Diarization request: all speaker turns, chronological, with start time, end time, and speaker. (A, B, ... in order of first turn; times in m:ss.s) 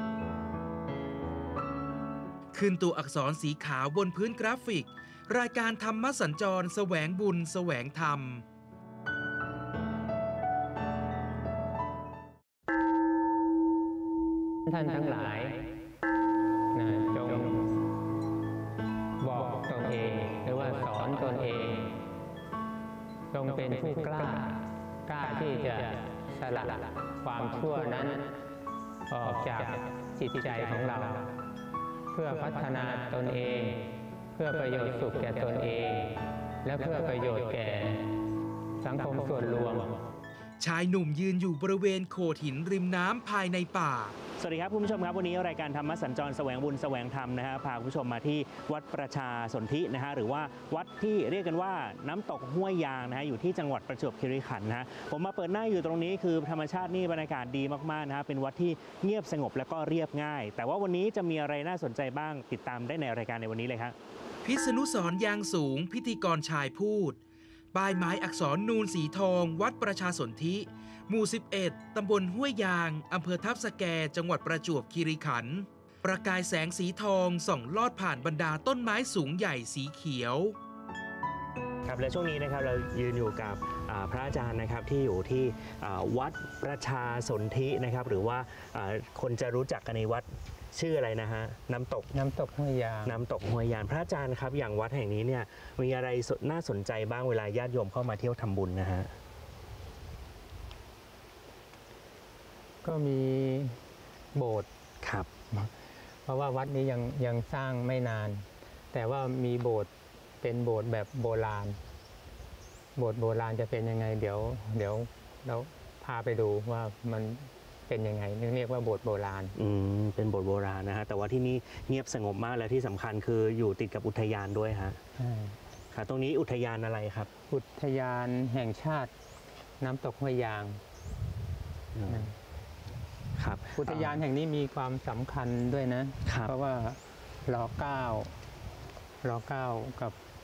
0:02.5-0:08.4 A
0:14.7-0:15.7 B
0:16.7-0:17.8 B
0:19.2-0:22.0 B
0:23.3-0:28.4 B
0:29.1-0:31.4 B
0:32.1-0:38.1 B
0:38.8-0:40.0 B
0:40.6-0:44.2 A
0:44.4-1:04.0 C
1:04.4-1:07.2 A
1:07.7-1:20.6 A
1:21.8-1:32.1 C
1:32.1-1:33.2 B
1:33.0-1:39.2 C
1:42.8-1:43.8 B
1:44.3-1:44.7 B
1:45.0-1:45.3 C
1:46.3-1:51.8 B
1:53.0-1:59.6 B
1:59.6-2:05.0 C
2:05.2-2:05.6 B
2:05.9-2:07.3 C
2:07.5-2:09.1 B
2:09.8-2:10.8 B
2:11.9-2:12.3 C
2:12.1-2:12.3 B
2:13.4-2:14.2 C
2:13.8-2:18.4 B
2:16.3-2:16.5 C
2:19.2-2:20.2 B